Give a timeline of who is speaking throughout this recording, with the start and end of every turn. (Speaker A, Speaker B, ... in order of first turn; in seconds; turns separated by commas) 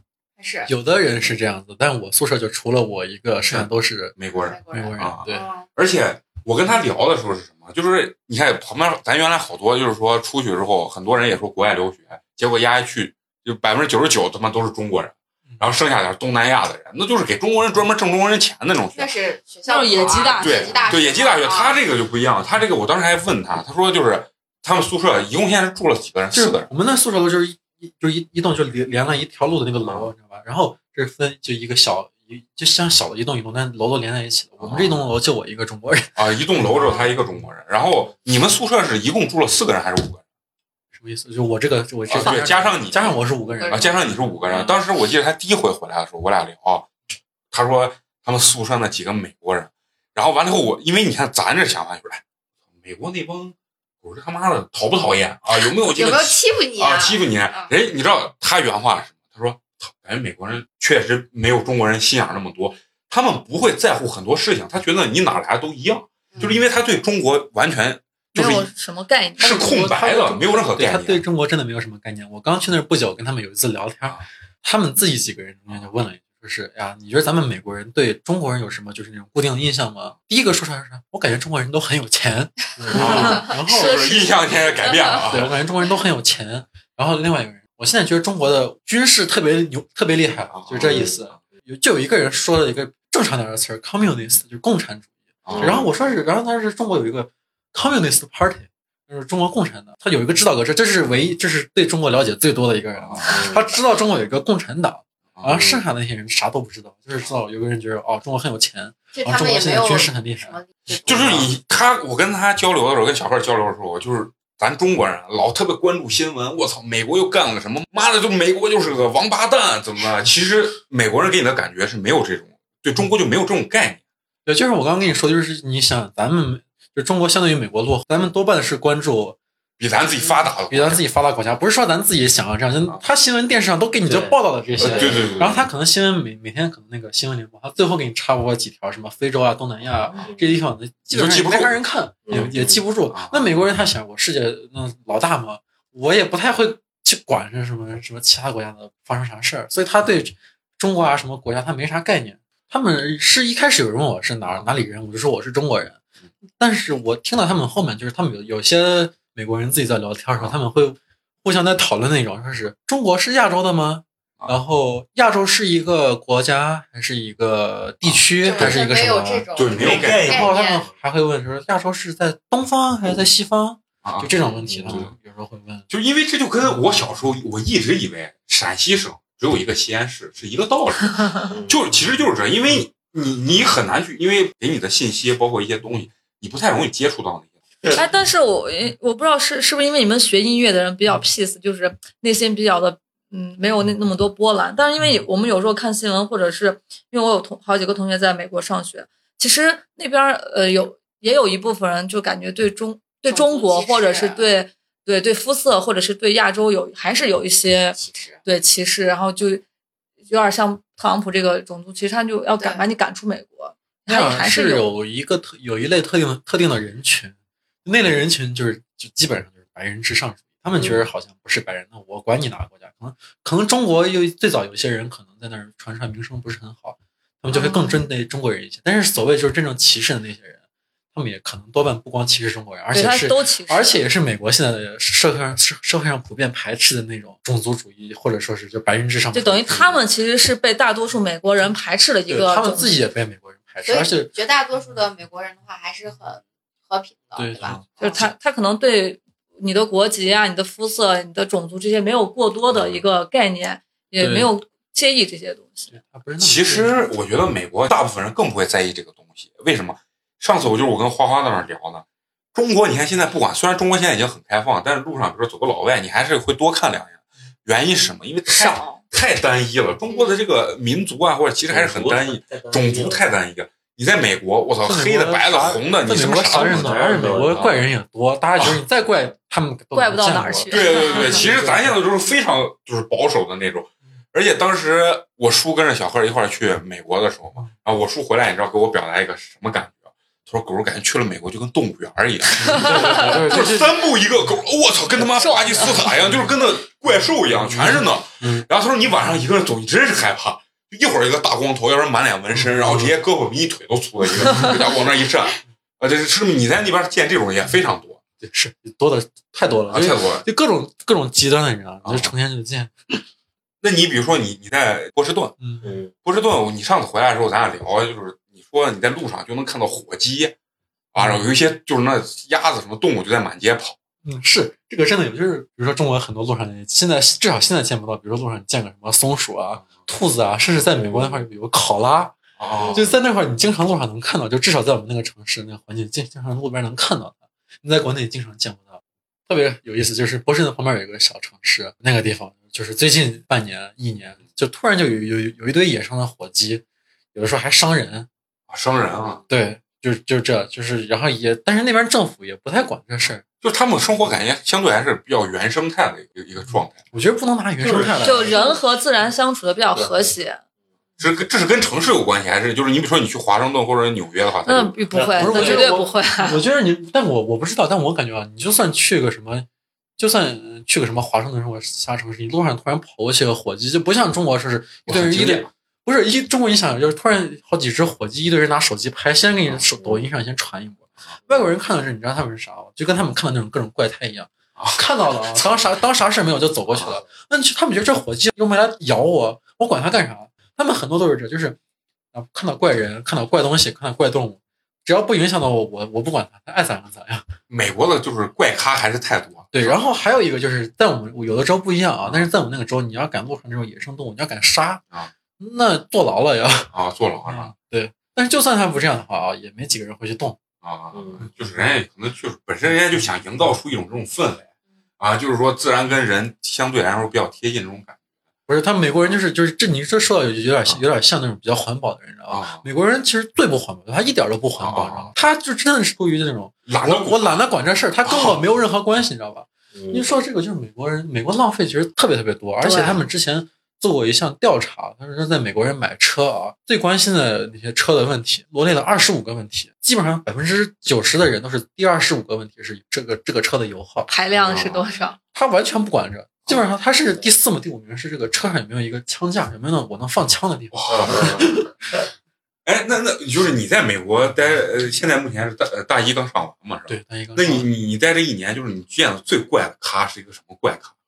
Speaker A: 0.4-0.7, Speaker B: 0.7-4.2, Speaker C: 3.5-19.1, Speaker A: 4.4-5.7, Speaker B: 4.7-5.5, Speaker A: 18.9-21.8, Speaker D: 19.7-20.9, Speaker C: 20.0-26.7, Speaker B: 26.3-36.8, Speaker C: 29.8-30.1, Speaker C: 34.6-35.0, Speaker C: 36.1-40.2, Speaker B: 40.9-44.1, Speaker C: 42.1-46.9, Speaker A: 43.6-44.0, Speaker C: 47.5-52.2, Speaker C: 52.8-68.7, Speaker A: 55.7-57.7, Speaker A: 66.3-66.6, Speaker D: 68.3-69.7, Speaker C: 69.4-71.2, Speaker B: 69.4-84.0, Speaker C: 82.9-85.5, Speaker D: 83.0-85.3, Speaker B: 85.3-110.6, Speaker C: 90.5-91.2, Speaker E: 90.9-91.1, Speaker C: 95.5-95.8, Speaker E: 95.5-95.9, Speaker C: 103.0-103.4, Speaker E: 103.3-103.7, Speaker C: 105.3-105.6, Speaker E: 105.5-105.8, Speaker A: 109.1-111.3, Speaker C: 111.0-124.0, Speaker B: 124.4-129.4, Speaker C: 129.8-131.0, Speaker B: 130.7-156.0, Speaker E: 134.1-135.4, Speaker C: 134.8-135.7, Speaker E: 140.1-140.6, Speaker C: 141.1-141.7, Speaker E: 142.3-142.8, Speaker C: 142.3-143.5, Speaker B: 156.6-175.9, Speaker C: 168.0-168.8, Speaker A: 168.4-170.9, Speaker C: 169.5-170.5, Speaker E: 169.7-170.8, Speaker C: 174.0-174.3, Speaker E: 174.5-175.1, Speaker C: 174.8-175.1, Speaker C: 175.9-187.6, Speaker E: 181.5-181.8, Speaker D: 187.9-209.6, Speaker A: 203.3-204.4, Speaker A: 207.9-208.4, Speaker D: 210.3-214.8, Speaker A: 212.6-212.8, Speaker B: 214.1-230.6, Speaker D: 227.5-228.0, Speaker B: 231.1-240.0, Speaker D: 232.9-234.0, Speaker D: 239.3-243.0, Speaker B: 242.3-244.3, Speaker A: 243.8-248.2, Speaker B: 247.3-248.3, Speaker D: 248.0-255.9, Speaker B: 254.2-254.5, Speaker B: 255.9-256.9, Speaker C: 256.4-277.0, Speaker D: 268.5-269.0, Speaker A: 270.1-270.4, Speaker E: 271.7-273.2, Speaker B: 274.8-282.0, Speaker E: 276.5-277.9, Speaker D: 279.9-281.4, Speaker C: 280.7-308.2, Speaker B: 292.6-294.0, Speaker D: 295.4-296.2, Speaker B: 297.5-298.6, Speaker B: 302.5-303.1, Speaker B: 308.4-313.2, Speaker C: 309.9-310.4, Speaker C: 312.0-312.3, Speaker C: 313.8-315.5, Speaker B: 315.6-315.9, Speaker E: 315.8-316.1, Speaker C: 316.2-320.5, Speaker C: 321.1-323.9, Speaker B: 321.1-321.5, Speaker B: 324.2-332.4, Speaker E: 331.0-331.4, Speaker C: 332.6-333.1, Speaker B: 332.9-346.8, Speaker B: 347.3-348.3, Speaker C: 348.7-349.4, Speaker B: 349.5-353.4, Speaker C: 353.6-357.0, Speaker B: 356.7-358.7, Speaker E: 357.8-358.8, Speaker D: 358.2-360.6, Speaker E: 359.9-360.3, Speaker C: 361.2-365.0, Speaker D: 364.6-366.6, Speaker E: 365.1-366.0, Speaker B: 365.4-369.7, Speaker B: 370.2-391.8, Speaker C: 375.1-375.7, Speaker E: 379.9-380.2, Speaker C: 384.8-385.0, Speaker C: 385.5-385.8, Speaker B: 392.3-397.5, Speaker C: 397.7-400.0, Speaker B: 399.7-405.0, Speaker B: 405.6-406.9, Speaker C: 406.9-407.7, Speaker B: 407.4-410.6, Speaker C: 410.8-414.6, Speaker E: 411.1-411.5, Speaker C: 415.2-418.2, Speaker B: 418.7-444.3, Speaker C: 422.5-422.8, Speaker C: 424.8-425.3, Speaker C: 426.9-427.6, Speaker C: 428.2-428.6, Speaker E: 429.9-430.3, Speaker D: 432.8-433.2, Speaker D: 444.3-445.4, Speaker C: 444.7-444.9, Speaker B: 445.5-451.9, Speaker C: 450.9-451.7, Speaker E: 451.1-451.5, Speaker C: 452.8-461.1, Speaker B: 457.1-457.9